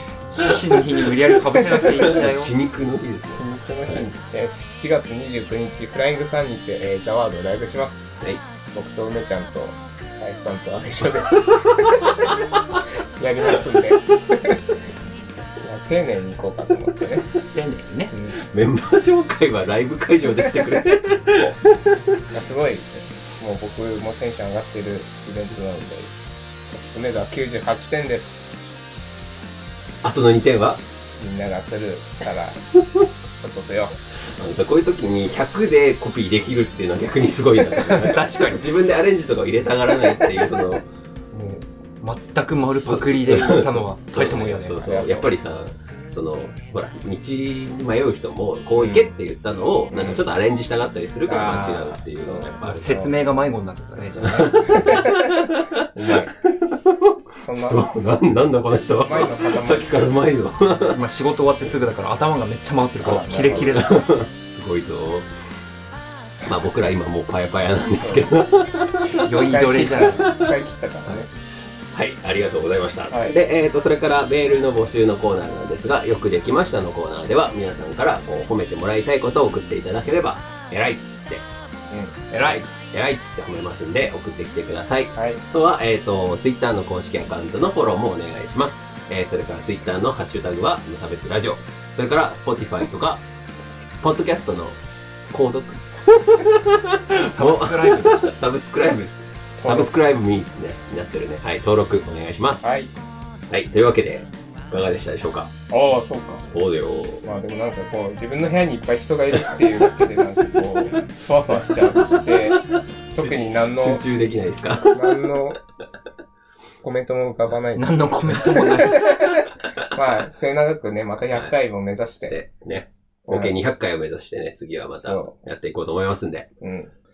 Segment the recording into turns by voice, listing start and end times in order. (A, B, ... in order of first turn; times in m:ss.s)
0:00.3-0:02.5 A
0:00.4-0:04.0 B
0:03.3-0:08.0 C
0:08.6-0:12.4 C
0:13.2-0:14.7 C
0:15.6-0:17.3 C
0:17.5-0:18.2 A
0:18.1-0:18.4 C
0:18.4-0:22.2 B
0:20.4-0:20.6 C
0:22.3-0:26.1 C
0:26.7-0:28.4 C
0:30.0-0:30.8 B
0:31.2-0:32.6 C
0:33.4-0:34.0 C
0:34.4-0:40.9 B
0:37.8-0:38.6 A
0:41.3-0:44.8 A
0:42.7-0:53.1 B
0:44.8-0:45.3 C
0:48.8-0:49.1 C
0:49.9-0:50.2 C
0:51.3-0:53.2 C
0:52.7-0:54.6 A
0:54.0-0:56.4 C
0:54.2-1:01.0 B
0:57.4-0:57.9 C
0:59.0-1:00.0 C
1:00.9-1:04.1 A
1:03.0-1:05.3 B
1:03.0-1:03.8 C
1:06.4-1:10.5 B
1:08.0-1:08.3 C
1:09.2-1:11.3 C
1:09.2-1:10.3 A
1:11.0-1:11.3 B
1:11.9-1:21.4 B
1:13.1-1:13.4 C
1:21.9-1:22.5 C
1:22.3-1:22.6 A
1:22.3-1:33.2 B
1:25.2-1:25.4 C
1:34.0-1:34.8 B
1:35.3-1:42.7 B
1:37.1-1:38.4 A
1:39.6-1:39.9 C
1:42.6-1:42.9 C
1:43.5-1:45.5 B
1:45.7-1:46.5 C
1:46.5-1:47.3 B
1:47.2-1:54.0 C
1:49.3-1:50.2 B
1:51.9-1:55.4 B
1:54.9-1:55.6 C
1:56.8-2:02.4 C
1:57.8-1:59.0 A
1:58.4-1:59.4 B
2:02.3-2:06.5 B
2:03.3-2:03.6 C
2:05.0-2:05.4 C
2:06.6-2:06.9 C